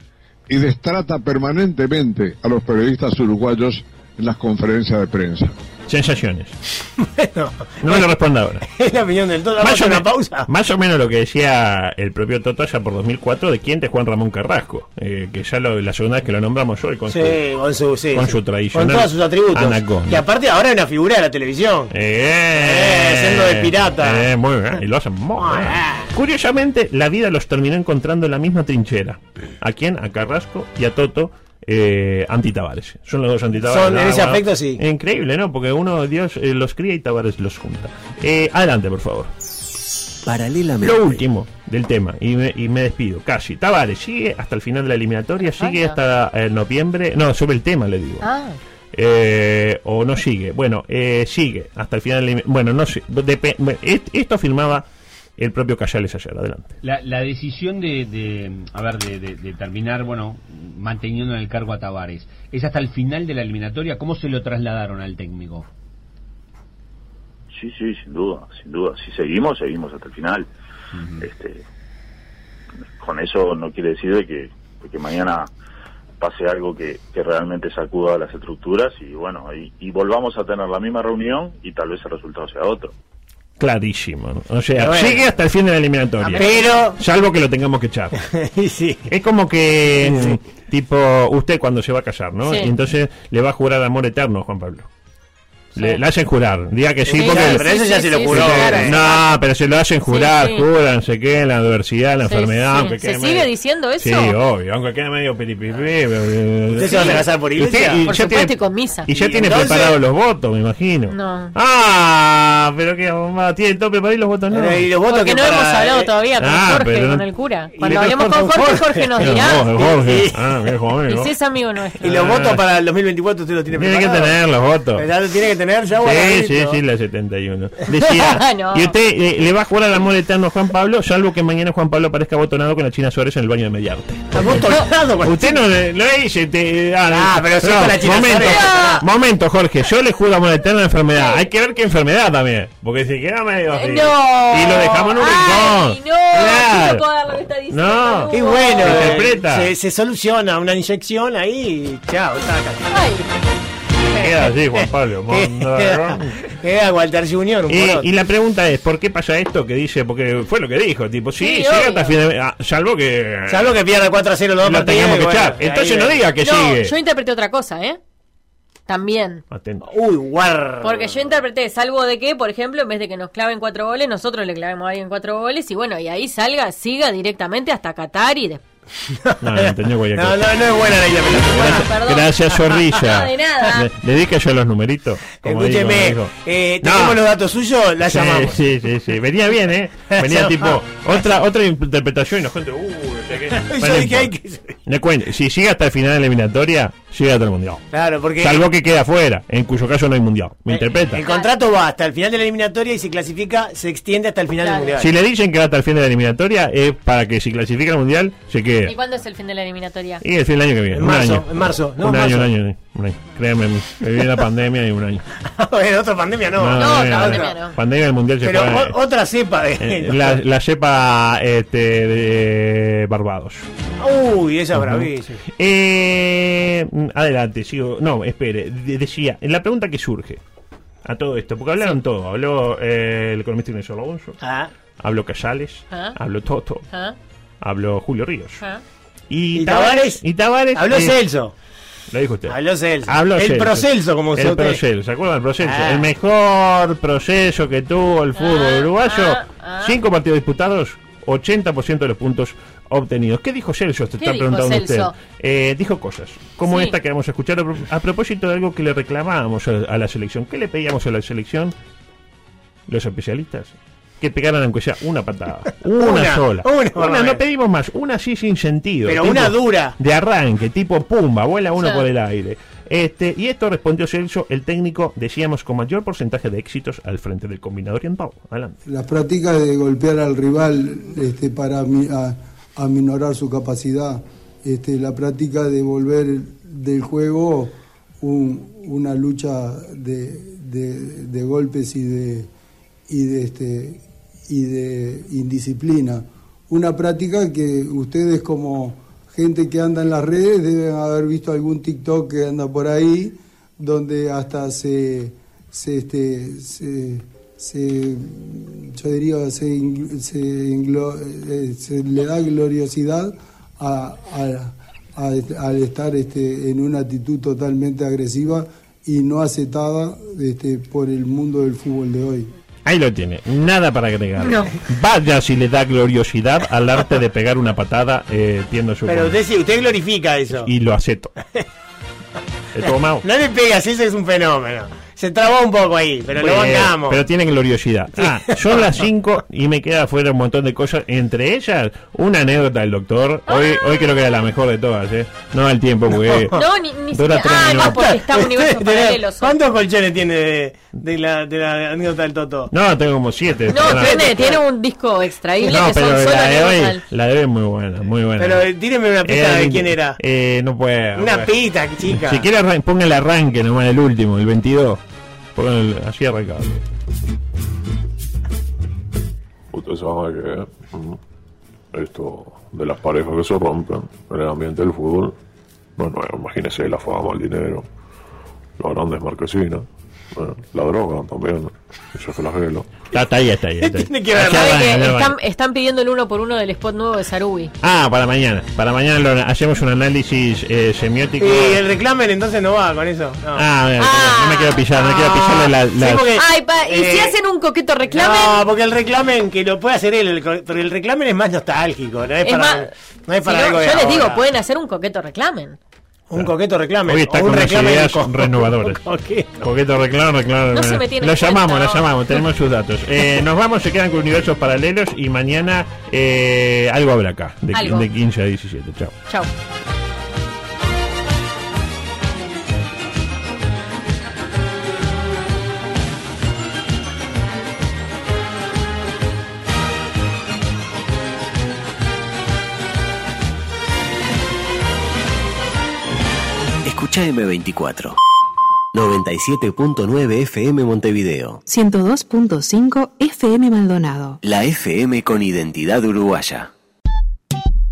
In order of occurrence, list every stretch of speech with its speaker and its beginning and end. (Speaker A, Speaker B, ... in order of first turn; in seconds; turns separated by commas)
Speaker A: 0.5-5.5, Speaker B: 5.9-6.6, Speaker C: 7.0-8.1, Speaker B: 7.8-8.7, Speaker C: 8.7-10.5, Speaker B: 9.6-17.4, Speaker C: 17.1-21.9, Speaker B: 18.1-20.2, Speaker B: 21.9-39.3, Speaker C: 22.5-24.3, Speaker C: 25.4-26.1, Speaker C: 33.7-34.8, Speaker D: 40.3-41.1, Speaker B: 40.8-48.2, Speaker E: 45.5-46.0, Speaker E: 48.2-48.6, Speaker B: 48.9-54.9, Speaker B: 55.4-56.7, Speaker F: 56.8-65.7, Speaker G: 67.5-70.5, Speaker F: 71.0-71.3, Speaker G: 71.2-71.6, Speaker G: 73.0-75.5, Speaker G: 76.2-82.9, Speaker B: 83.6-88.2, Speaker C: 84.8-85.2, Speaker E: 86.2-86.8, Speaker C: 86.4-87.0, Speaker C: 88.2-89.1, Speaker B: 89.1-94.9, Speaker C: 90.0-90.4, Speaker E: 92.4-92.7, Speaker E: 95.8-96.0, Speaker B: 95.8-114.9, Speaker C: 97.1-99.0, Speaker E: 97.1-99.4, Speaker E: 100.1-100.7, Speaker E: 102.2-104.4, Speaker C: 106.7-108.0, Speaker E: 108.1-109.1, Speaker C: 109.1-110.0, Speaker E: 111.1-111.5, Speaker C: 114.5-116.1, Speaker E: 115.1-119.8, Speaker B: 116.4-117.3, Speaker C: 117.8-120.5, Speaker B: 117.9-118.3, Speaker B: 119.2-121.3, Speaker E: 121.1-122.1, Speaker B: 122.0-122.6, Speaker C: 122.0-124.4, Speaker B: 123.7-125.1, Speaker C: 125.0-126.8, Speaker B: 126.0-134.7, Speaker E: 128.1-128.9, Speaker C: 134.3-135.6, Speaker B: 135.2-147.1, Speaker C: 137.1-139.0, Speaker E: 138.4-139.0, Speaker E: 141.2-141.4, Speaker E: 143.7-149.2, Speaker B: 147.7-149.7, Speaker C: 148.3-152.9, Speaker E: 152.9-153.3, Speaker B: 154.1-156.4, Speaker C: 154.8-158.1, Speaker B: 157.7-163.8, Speaker E: 161.4-162.2, Speaker C: 163.5-166.2, Speaker B: 164.6-166.9, Speaker E: 166.4-168.0, Speaker E: 168.9-169.4, Speaker B: 169.5-169.9, Speaker C: 169.9-171.2, Speaker E: 170.8-178.6, Speaker C: 179.1-181.9, Speaker B: 179.4-187.2, Speaker E: 181.6-183.9, Speaker C: 185.4-188.6, Speaker B: 188.0-194.3, Speaker C: 190.1-190.8, Speaker C: 193.5-194.8, Speaker B: 194.9-197.8, Speaker C: 197.9-198.6, Speaker B: 198.4-201.2, Speaker C: 200.7-205.1, Speaker E: 201.2-201.5, Speaker E: 204.6-204.9, Speaker B: 205.0-208.9, Speaker E: 208.9-210.2, Speaker B: 210.2-215.3, Speaker C: 210.9-212.5, Speaker C: 215.5-217.5, Speaker B: 216.6-219.0, Speaker E: 216.7-217.8, Speaker C: 218.4-220.4, Speaker B: 219.8-223.7, Speaker C: 224.0-225.4, Speaker B: 224.7-230.4, Speaker B: 231.1-234.4, Speaker C: 234.4-234.7, Speaker B: 235.0-236.8, Speaker E: 235.9-236.2, Speaker E: 236.9-237.2, Speaker B: 237.6-238.6, Speaker B: 239.3-241.2, Speaker C: 239.6-241.5, Speaker B: 242.1-261.7, Speaker C: 242.5-244.8, Speaker C: 245.6-246.1, Speaker E: 248.4-250.0, Speaker E: 254.2-255.1, Speaker E: 256.7-256.9, Speaker B: 262.9-278.8, Speaker C: 265.9-267.4, Speaker C: 269.1-270.0, Speaker E: 271.8-272.1, Speaker H: 278.9-292.5, Speaker H: 293.1-322.5, Speaker B: 322.9-329.4, Speaker C: 329.1-330.7, Speaker B: 330.5-331.4, Speaker B: 332.7-333.3, Speaker C: 333.2-337.2, Speaker B: 336.4-346.6, Speaker C: 338.2-338.9, Speaker E: 343.5-343.9, Speaker C: 346.2-346.6, Speaker E: 346.5-349.6, Speaker B: 347.1-348.0, Speaker C: 347.8-352.7, Speaker B: 352.7-354.6, Speaker E: 353.7-357.0, Speaker C: 353.8-354.6, Speaker B: 355.6-358.7, Speaker C: 358.4-360.2, Speaker B: 359.2-361.5, Speaker C: 361.2-362.5, Speaker B: 362.0-365.0, Speaker B: 365.6-366.8, Speaker I: 369.7-371.2, Speaker I: 371.9-375.4, Speaker I: 376.0-377.9, Speaker I: 378.8-383.0, Speaker B: 383.1-385.4, Speaker C: 383.8-384.8, Speaker E: 384.5-387.7, Speaker B: 387.8-391.8, Speaker C: 391.4-393.7, Speaker B: 393.6-396.3, Speaker E: 394.0-395.5, Speaker C: 395.0-397.4, Speaker E: 396.4-398.6, Speaker C: 398.1-404.4, Speaker E: 402.4-402.9, Speaker E: 403.4-405.8, Speaker C: 406.3-409.6, Speaker B: 407.1-409.0, Speaker B: 409.6-419.2, Speaker E: 410.7-412.4, Speaker E: 417.7-418.1, Speaker D: 436.9-438.2, Speaker D: 438.9-441.6, Speaker J: 441.7-444.4, Speaker D: 444.4-446.7